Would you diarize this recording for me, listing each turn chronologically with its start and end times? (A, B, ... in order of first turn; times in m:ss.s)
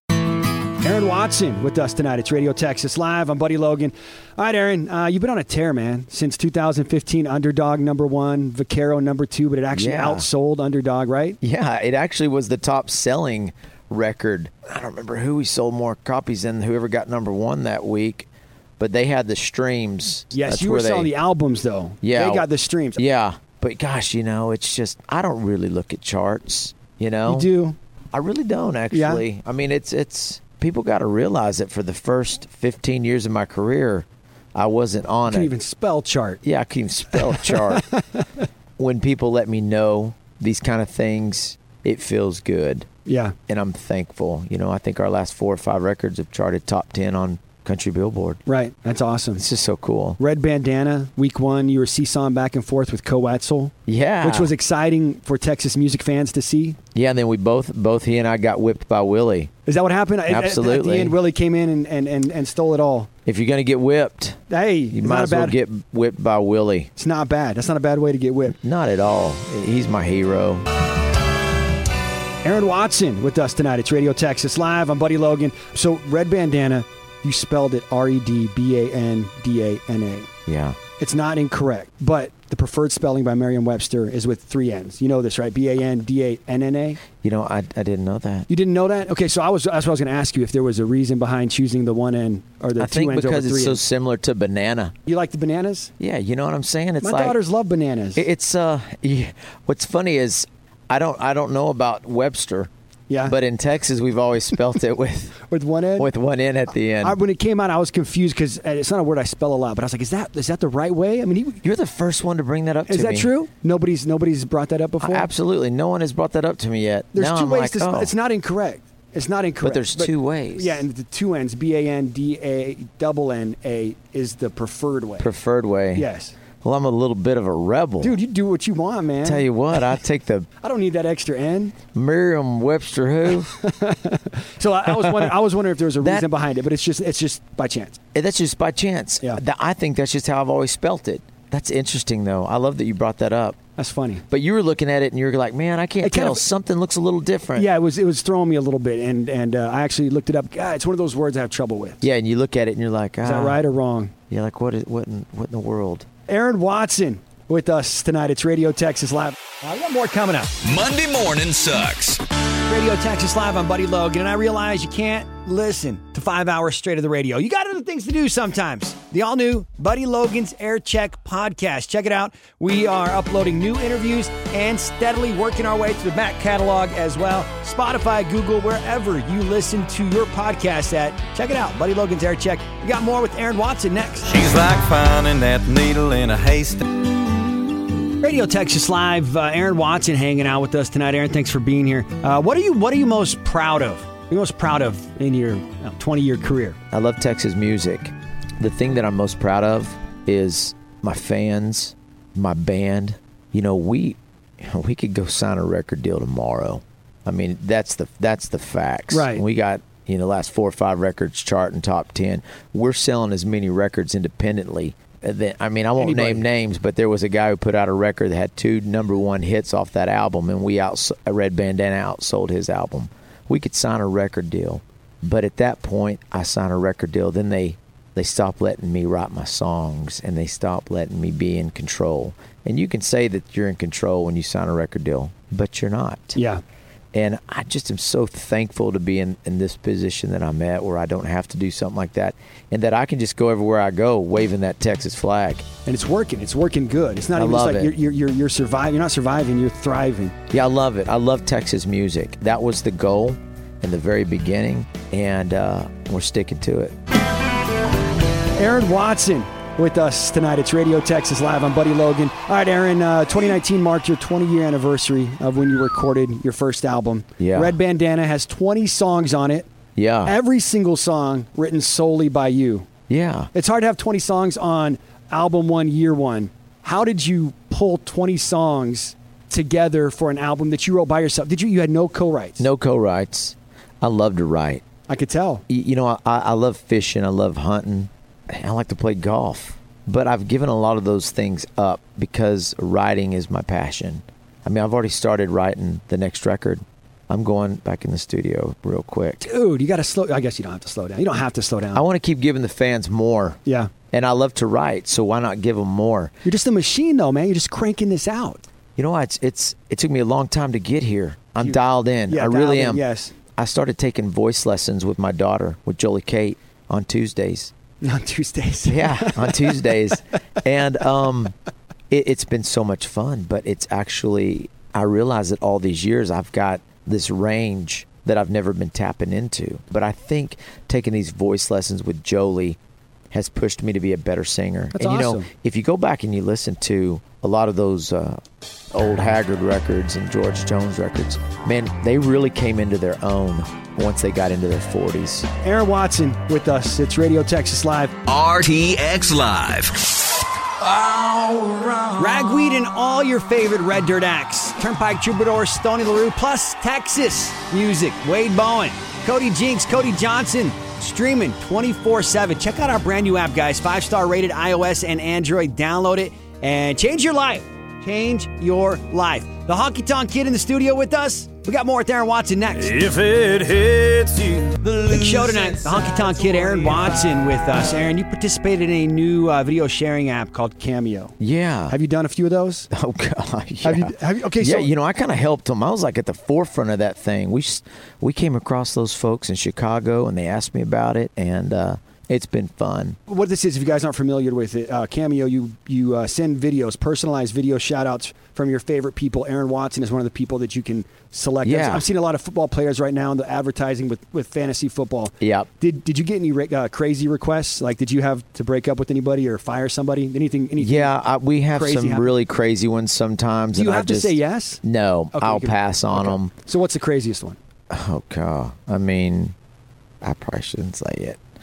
0:00.8-0:11.4 A
0:09.7-0:10.3 B
0:11.4-0:21.1 B
0:20.3-0:23.0 A
0:22.0-0:27.5 B
0:27.3-0:27.8 A
0:28.1-0:35.5 B
0:28.9-0:29.2 A
0:35.3-0:36.4 A
0:36.4-0:37.9 B
0:37.1-0:38.3 A
0:38.8-0:42.9 B
0:43.1-0:43.4 A
0:43.5-0:48.4 B
0:48.5-0:49.4 A
0:49.4-0:50.2 B
0:50.2-0:56.8 A
0:53.9-0:54.5 B
0:57.0-0:59.5 B
0:59.7-1:03.1 A
1:00.3-1:01.2 B
1:03.3-1:04.4 B
1:04.5-1:05.6 A
1:04.9-1:06.9 B
1:07.0-1:08.6 A
1:08.6-1:10.7 B
1:12.4-1:20.3 A
1:20.5-1:20.8 B
1:21.0-1:27.0 A
1:27.2-1:28.5 B
1:28.5-1:33.8 A
1:32.8-1:34.9 B
1:35.1-1:35.9 A
1:36.0-1:37.4 B
1:37.0-1:38.2 A
1:38.2-1:42.7 B
1:43.1-1:43.4 A
1:43.2-1:45.4 B
1:45.5-1:46.1 A
1:46.0-1:47.2 B
1:47.0-1:51.6 A
1:51.6-1:53.3 B
1:52.9-1:55.3 A
1:55.0-1:58.1 B
1:57.1-2:05.3 A
1:59.6-2:00.8 B
2:05.2-2:06.1 B
2:06.0-2:06.4 A
2:06.6-2:08.2 B
2:08.0-2:09.5 A
2:09.2-2:10.5 B
2:10.6-2:11.8 A
2:11.9-2:13.5 B
2:13.5-2:18.0 A
2:14.9-2:15.3 B
2:16.0-2:16.3 B
2:18.2-2:23.6 B
2:23.8-2:24.2 A
2:24.3-2:27.7 B
2:26.0-2:26.4 A
2:27.6-2:32.0 A
2:32.0-2:33.6 B
2:33.2-2:34.1 A
2:34.3-2:36.1 B
2:36.3-2:40.5 A
2:40.6-2:42.2 C
2:42.7-3:04.4 A
3:04.4-3:06.9 D
3:08.2-3:16.8 A
3:16.9-3:56.4 B
3:29.1-3:29.4 A
3:36.0-3:36.4 A
3:56.4-3:56.6 A
3:57.1-4:05.7 B
4:05.8-4:10.4 A
4:07.4-4:07.9 B
4:10.5-4:17.0 B
4:18.5-4:29.7 A
4:27.4-4:27.8 B
4:30.0-4:30.4 B
4:30.2-4:32.9 A
4:33.1-4:33.5 B
4:33.5-4:42.7 A
4:42.6-4:44.8 B
4:45.1-4:45.6 A
4:45.7-4:59.4 B
4:59.4-5:02.0 A
5:01.9-5:03.6 B
5:03.6-5:03.9 A
5:04.1-5:06.3 B
5:06.4-5:08.6 A
5:09.0-5:13.0 B
5:11.6-5:13.4 A
5:13.6-5:17.7 B
5:18.0-5:19.8 A
5:18.9-5:21.6 B
5:22.1-5:32.8 B
5:33.3-5:45.5 B
5:35.0-5:35.5 A
5:45.6-5:48.2 A
5:48.3-5:50.2 C
5:50.8-5:52.1 C
5:52.2-6:13.1 A
6:13.0-6:16.7 D
6:15.0-6:21.4 A
6:21.4-6:22.0 B
6:21.9-6:22.9 A
6:22.9-6:33.2 B
6:23.8-6:24.9 A
6:33.3-6:51.1 A
6:41.6-6:42.1 B
6:45.4-6:45.7 B
6:50.8-6:56.5 B
6:51.8-6:52.3 A
6:53.8-6:54.8 A
6:55.3-6:57.6 A
6:57.9-6:59.6 B
7:00.2-7:01.4 B